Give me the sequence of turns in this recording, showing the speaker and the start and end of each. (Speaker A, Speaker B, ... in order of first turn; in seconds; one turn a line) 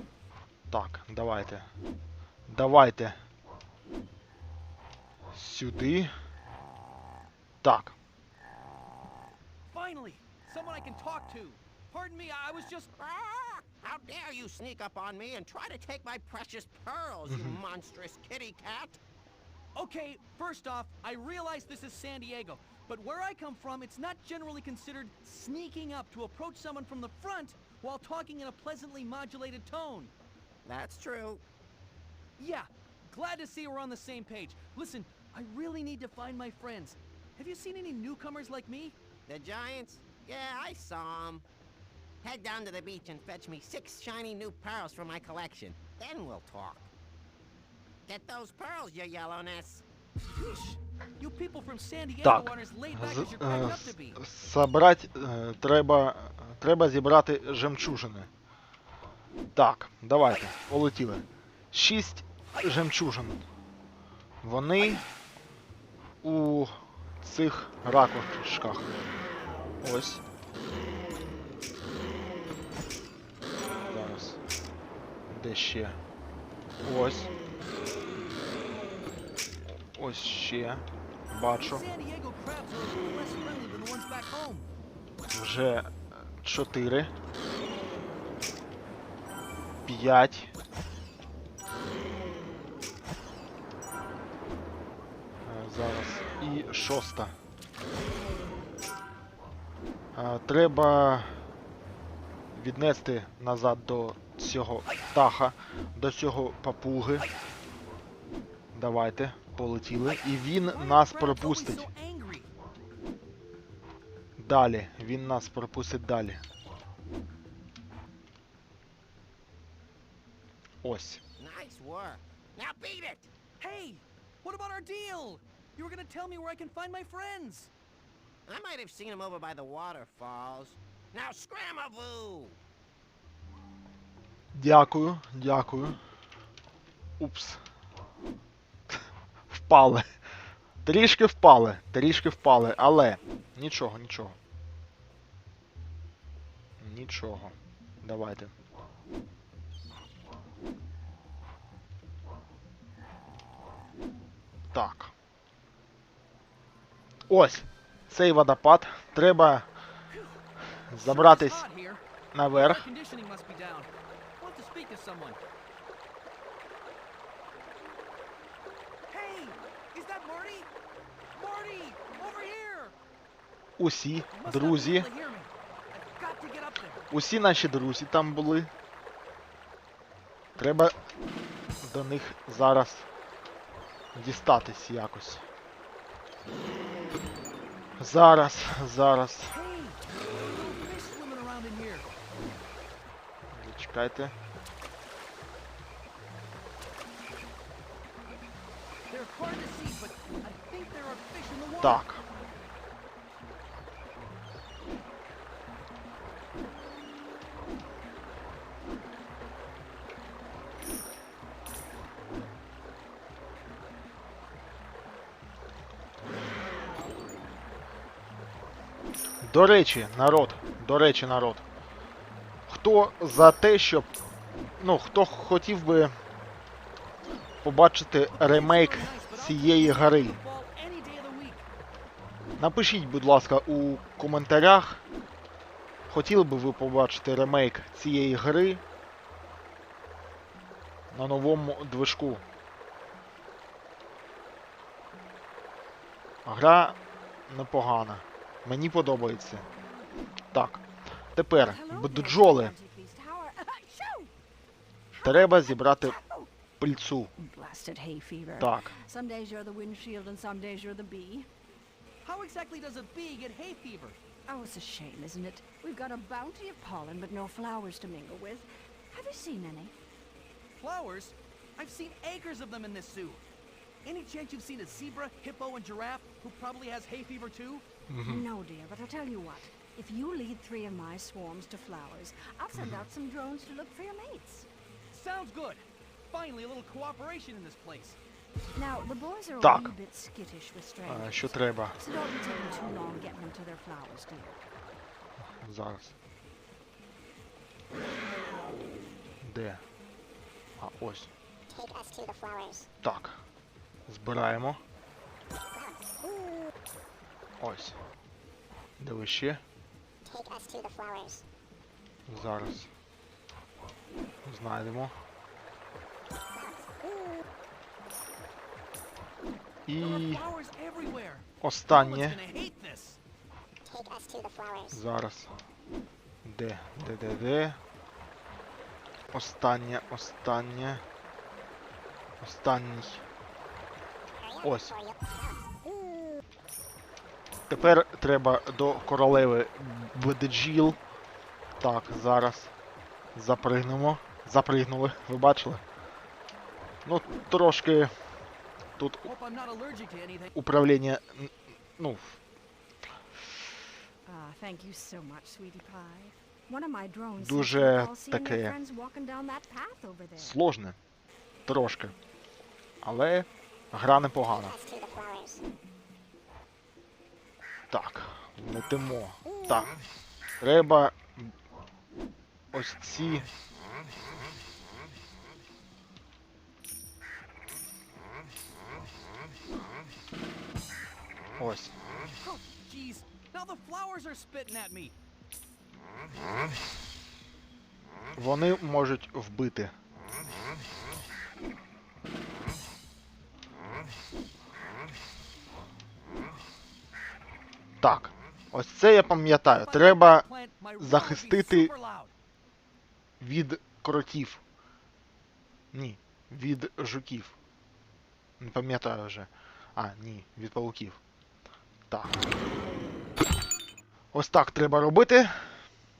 Speaker A: 0.7-1.7
Speaker A: 2.5-3.2
Speaker A: 5.3-6.1
Speaker A: 7.6-8.0
Speaker B: 9.7-12.9
Speaker C: 13.0-19.0
Speaker A: 17.2-17.6
Speaker B: 19.8-30.1
Speaker C: 30.6-31.4
Speaker B: 32.4-39.0
Speaker C: 39.3-41.5
Speaker C: 42.2-46.9
Speaker C: 48.1-49.8
Speaker B: 50.3-54.2
Speaker A: 52.2-58.3
Speaker A: 59.5-63.4
Speaker A: 64.4-65.0
Speaker A: 66.2-68.9
Speaker A: 69.8-70.2
Speaker A: 73.8-74.4
Speaker A: 75.3-76.0
Speaker A: 76.8-77.3
Speaker A: 79.7-81.8
Speaker B: 81.5-84.7
Speaker A: 85.3-87.1
Speaker A: 89.9-90.5
Speaker A: 95.5-97.3
Speaker A: 100.2-101.4
Speaker A: 102.5-107.2
Speaker A: 108.7-111.9
Speaker B: 110.6-112.5
Speaker A: 114.4-116.4
Speaker A: 120.8-121.2
Speaker C: 121.4-123.3
Speaker B: 123.6-127.7
Speaker C: 128.5-132.6
Speaker A: 134.5-136.0
Speaker A: 137.2-137.6
Speaker A: 139.5-140.1
Speaker A: 140.8-144.4
Speaker A: 146.8-148.5
Speaker A: 154.7-155.1
Speaker A: 157.3-159.7
Speaker B: 160.1-160.4
Speaker A: 160.9-161.6
Speaker B: 161.0-165.4
Speaker A: 162.3-162.9
Speaker B: 169.1-170.7
Speaker B: 171.3-172.9
Speaker A: 173.8-175.1
Speaker B: 174.3-177.1
Speaker A: 177.1-178.7
Speaker A: 180.6-180.9
Speaker A: 181.8-183.1
Speaker A: 184.1-185.4
Speaker A: 188.0-189.5
Speaker B: 189.5-192.2
Speaker A: 193.5-194.3
Speaker B: 199.1-202.0
Speaker A: 201.8-202.2
Speaker A: 219.4-221.6
Speaker A: 222.7-224.1
Speaker A: 224.8-226.1
Speaker A: 227.6-230.4
Speaker B: 228.3-231.7
Speaker A: 232.6-235.0
Speaker A: 236.1-238.8
Speaker A: 241.1-242.4
Speaker A: 246.4-249.7
Speaker A: 250.5-252.8
Speaker D: 251.5-254.3
Speaker D: 255.1-256.5
Speaker A: 255.2-256.2
Speaker A: 256.8-257.3
Speaker D: 257.4-261.5
Speaker A: 258.6-258.9
Speaker B: 262.2-264.2
Speaker D: 264.5-269.9
Speaker B: 270.8-273.4
Speaker B: 274.0-277.9
Speaker A: 278.1-278.5
Speaker D: 278.3-284.7
Speaker A: 282.7-283.1
Speaker B: 285.1-288.2
Speaker D: 288.8-294.6
Speaker A: 289.6-289.9
Speaker A: 291.1-292.0
Speaker A: 295.4-296.1
Speaker A: 299.4-299.8
Speaker A: 300.8-301.3
Speaker E: 301.7-302.9
Speaker A: 303.0-303.4
Speaker A: 304.1-304.8
Speaker E: 305.7-306.6
Speaker A: 307.6-308.0
Speaker A: 309.0-309.6
Speaker E: 310.2-311.4
Speaker A: 312.3-312.9
Speaker A: 314.4-315.1
Speaker E: 316.6-317.4
Speaker A: 319.9-320.4
Speaker B: 319.9-323.2
Speaker A: 321.6-322.4
Speaker E: 323.9-325.0
Speaker A: 324.9-325.5
Speaker A: 326.4-327.8
Speaker A: 329.3-331.0
Speaker A: 332.4-333.2
Speaker E: 334.4-336.3
Speaker A: 334.6-335.0
Speaker A: 337.7-341.0
Speaker A: 341.8-342.7
Speaker A: 343.4-345.8
Speaker A: 347.1-348.1
Speaker A: 349.0-349.3
Speaker B: 349.2-350.5
Speaker A: 350.6-352.4
Speaker D: 354.2-360.6
Speaker A: 357.4-358.8
Speaker A: 360.4-361.0
Speaker A: 361.7-362.1
Speaker A: 363.0-364.8
Speaker E: 364.6-365.6
Speaker A: 367.9-369.9
Speaker A: 370.6-371.5
Speaker A: 372.7-373.5
Speaker A: 381.6-381.9
Speaker B: 382.4-385.1
Speaker A: 388.4-389.9
Speaker A: 398.0-400.5
Speaker B: 399.7-402.3
Speaker A: 401.0-401.9
Speaker A: 403.4-404.6
Speaker A: 405.9-407.5
Speaker A: 408.6-411.2
Speaker A: 412.1-412.4
Speaker A: 414.3-415.9